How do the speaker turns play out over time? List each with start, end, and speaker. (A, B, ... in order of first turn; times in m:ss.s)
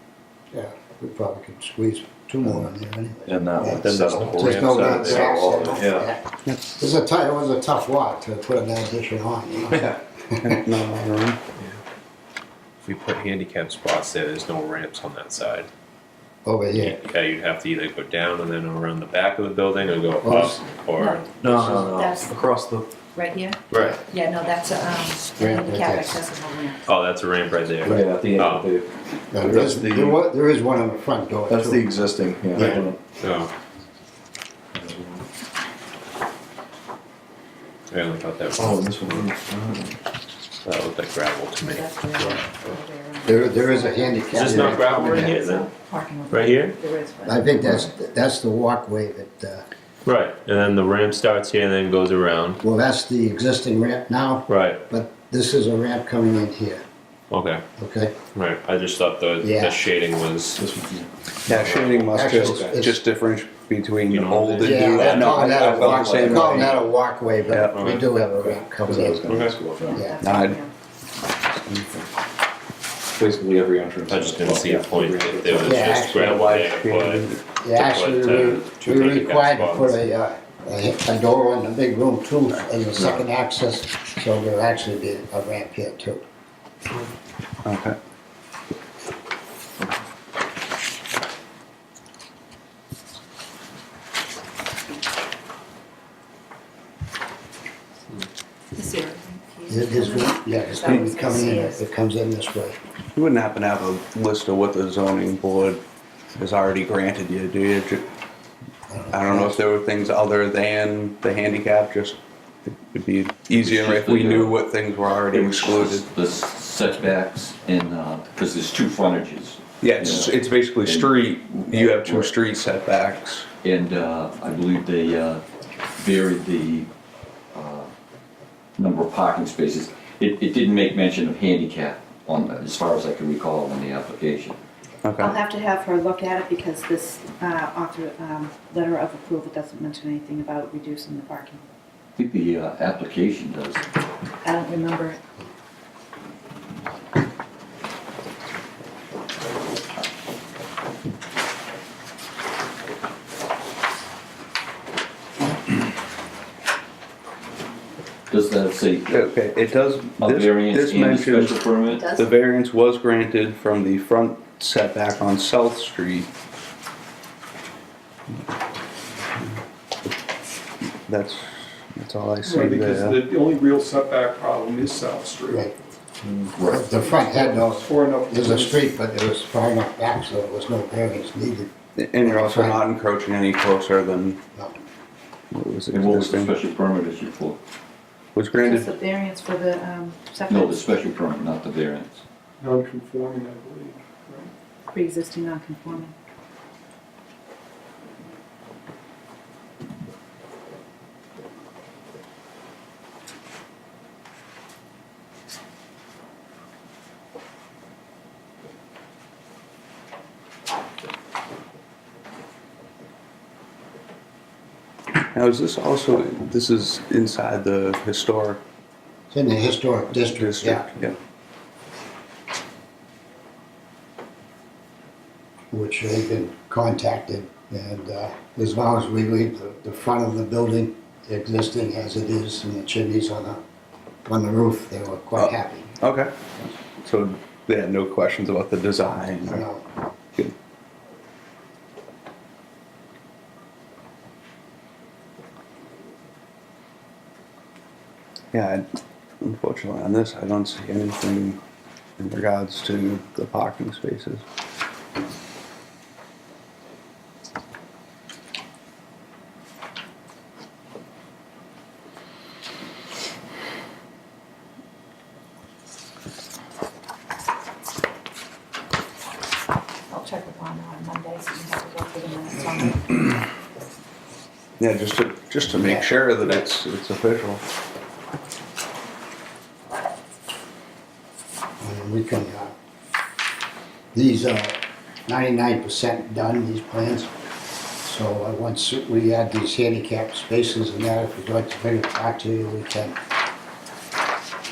0:00.5-0:10.5 A
0:02.4-0:02.7 B
0:03.3-0:06.1 B
0:03.6-0:05.8 C
0:09.7-0:11.4 D
0:12.8-0:15.7 C
0:16.4-0:17.0 A
0:16.8-0:21.8 C
0:20.2-0:20.6 A
0:21.0-0:22.4 E
0:21.4-0:22.9 B
0:23.1-0:26.9 E
0:23.7-0:24.0 C
0:25.4-0:26.2 A
0:26.9-0:28.7 C
0:27.8-0:30.2 B
0:29.3-0:32.0 A
0:31.5-0:33.0 B
0:32.5-0:32.8 A
0:32.5-0:33.5 C
0:34.7-0:35.2 B
0:37.9-0:39.3 C
0:38.6-0:39.9 B
0:40.6-0:41.8 C
0:41.6-0:47.9 E
0:42.2-0:42.4 A
0:43.2-0:45.4 A
0:44.3-0:45.7 C
0:46.3-0:46.8 C
0:47.3-0:49.6 A
0:50.0-0:52.6 C
0:52.6-0:56.8 A
0:54.5-0:54.8 C
0:57.3-0:57.6 C
0:57.8-0:58.2 A
0:58.3-1:00.6 C
0:59.4-0:59.8 A
1:00.6-1:01.1 B
1:01.5-1:06.8 D
1:01.5-1:02.1 C
1:02.1-1:03.0 A
1:02.3-1:02.8 B
1:04.1-1:05.4 C
1:04.6-1:10.2 A
1:05.3-1:06.8 B
1:07.5-1:07.8 D
1:07.6-1:08.1 C
1:08.3-1:10.0 B
1:09.2-1:09.8 C
1:09.8-1:10.7 E
1:10.2-1:10.6 D
1:11.4-1:12.0 D
1:13.2-1:15.9 B
1:14.1-1:20.0 C
1:15.6-1:16.6 A
1:16.2-1:17.4 D
1:17.5-1:26.2 A
1:27.6-1:28.0 D
1:38.7-1:41.8 E
1:39.7-1:42.8 A
1:43.2-1:45.8 D
1:46.4-1:48.0 D
1:48.9-1:49.6 A
1:49.1-1:56.0 D
1:53.6-1:54.6 F
1:55.2-2:02.3 F
1:59.8-2:03.5 D
2:03.6-2:05.4 F
2:06.0-2:06.9 F
2:07.5-2:07.9 F
2:08.8-2:14.6 F
2:15.0-2:15.4 D
2:15.2-2:21.6 E
2:22.2-2:23.8 F
2:24.4-2:25.2 E
2:38.3-2:39.2 F
2:39.1-2:46.3 D
2:40.2-2:42.0 F
2:41.9-2:42.3 E
2:51.1-2:53.2 D
2:52.4-2:55.7 G
2:55.5-2:55.7 A
2:56.2-2:56.5 B
2:56.6-2:56.9 F
2:56.7-3:01.7 A
2:56.9-2:58.8 G
3:02.0-3:04.4 D
3:02.2-3:02.8 A
3:05.5-3:06.6 D
3:05.9-3:07.6 F
3:08.4-3:08.9 D
3:08.6-3:10.9 E
3:10.5-3:12.2 F
3:12.6-3:14.5 G
3:14.9-3:16.1 E
3:35.3-3:38.6 D
3:39.3-3:40.9 A
3:40.2-3:41.2 D
3:45.7-3:53.6 A
3:54.2-3:55.9 A
3:55.4-3:59.6 D
3:59.4-3:59.8 A
4:08.5-4:08.8 D
4:09.4-4:11.6 D
4:12.2-4:14.4 D
4:30.1-4:33.3 E
4:34.8-4:37.6 D
4:41.8-4:42.7 A
4:44.1-4:47.3 A
4:48.0-4:53.2 A